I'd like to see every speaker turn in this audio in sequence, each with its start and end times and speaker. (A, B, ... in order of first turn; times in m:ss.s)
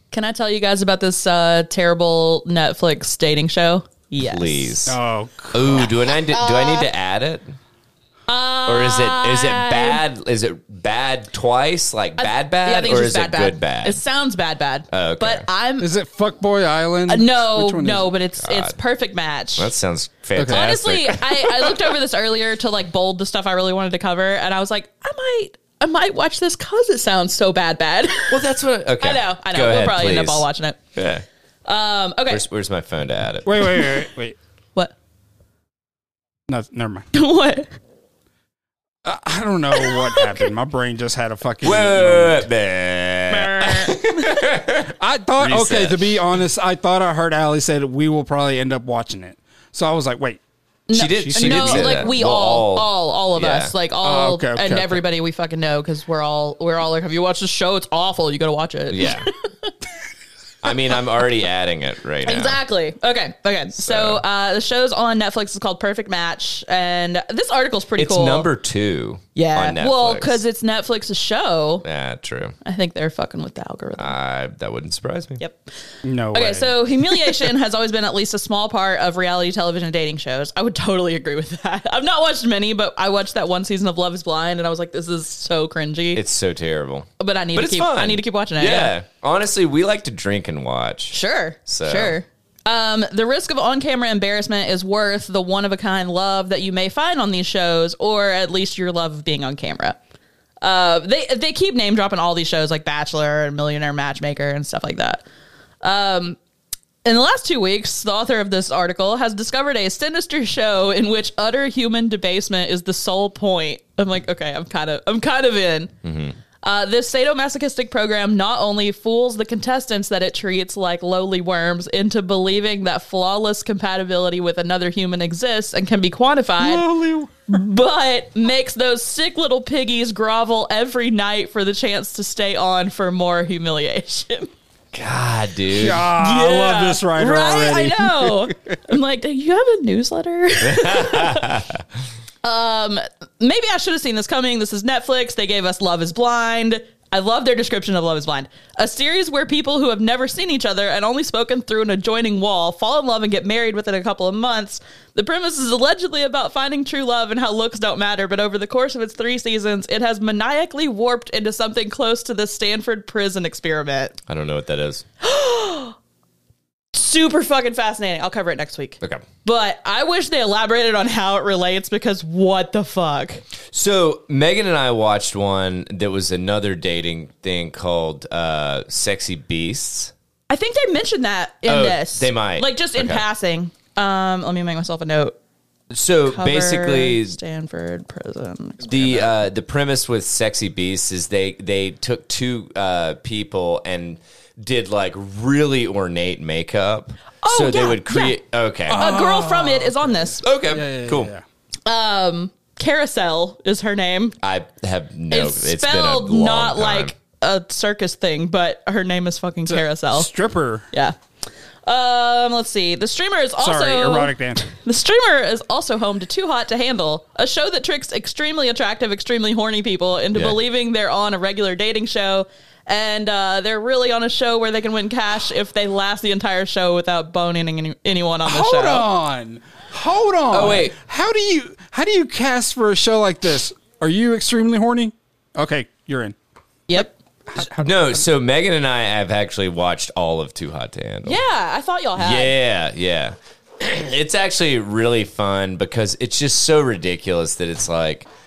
0:00.1-0:04.7 A
0:04.2-0:05.0 B
0:04.8-0:05.9 C
0:05.5-0:07.5 B
0:06.3-0:06.9 A
0:08.3-0:10.0 A
0:08.6-0:14.0 B
0:12.2-0:15.9 A
0:14.9-0:15.4 B
0:15.8-0:18.1 C
0:17.1-0:19.7 A
0:18.4-0:18.8 B
0:19.6-0:21.9 B
0:20.4-0:20.6 C
0:20.4-0:28.4 A
0:28.3-0:30.4 B
0:29.0-0:30.8 A
0:30.9-0:31.2 B
0:31.6-0:32.4 A
0:32.3-0:33.9 B
0:33.4-0:34.4 C
0:36.5-0:37.1 C
0:37.1-0:37.7 A
0:39.0-0:42.5 C
0:39.8-0:40.4 A
0:41.6-0:46.2 B
0:43.3-0:44.1 A
0:44.9-0:50.4 C
0:50.9-0:59.7 A
0:50.9-0:53.7 B
0:51.0-0:52.1 C
0:54.0-0:55.0 C
0:58.9-0:59.3 B
1:00.6-1:02.6 B
1:02.2-1:08.5 A
1:03.8-1:04.2 B
1:08.0-1:10.4 B
1:09.3-1:11.8 A
1:11.8-1:12.6 B
1:12.6-1:14.1 A
1:14.0-1:15.4 B
1:15.4-1:15.7 A
1:16.0-1:16.7 C
1:16.3-1:26.2 A
1:26.1-1:32.2 B
1:27.2-1:28.9 A
1:31.1-1:40.0 A
1:40.6-1:45.2 A
1:45.8-1:46.4 A
1:47.0-1:55.9 A
1:56.0-1:56.4 B
1:56.6-2:06.8 A
2:06.6-2:07.3 C
2:07.5-2:14.5 A
2:14.9-2:16.1 B
2:15.7-2:18.5 C
2:16.1-2:21.6 A
2:20.6-2:21.8 B
2:22.4-2:44.2 A
2:44.3-2:45.0 B
2:45.2-2:46.0 A
2:46.9-2:53.4 A
2:53.7-3:00.1 B
3:00.5-3:05.3 A
3:01.6-3:03.2 B
3:05.9-3:07.4 B
3:06.3-3:09.3 A
3:08.8-3:19.0 B
3:17.4-3:18.4 A
3:18.9-3:21.4 C
3:18.9-3:20.4 A
3:20.4-3:21.3 B
3:21.8-3:24.4 A
3:24.4-3:27.1 B
3:25.3-3:30.3 A
3:29.6-3:30.8 C
3:31.8-3:49.0 A
3:33.6-3:34.6 C
3:40.3-3:40.6 B
3:48.4-3:56.4 C
3:50.5-3:50.9 B
3:56.9-3:57.1 A
3:57.0-3:58.2 C
3:57.8-4:01.4 B
4:01.2-4:02.5 A
4:02.2-4:08.3 B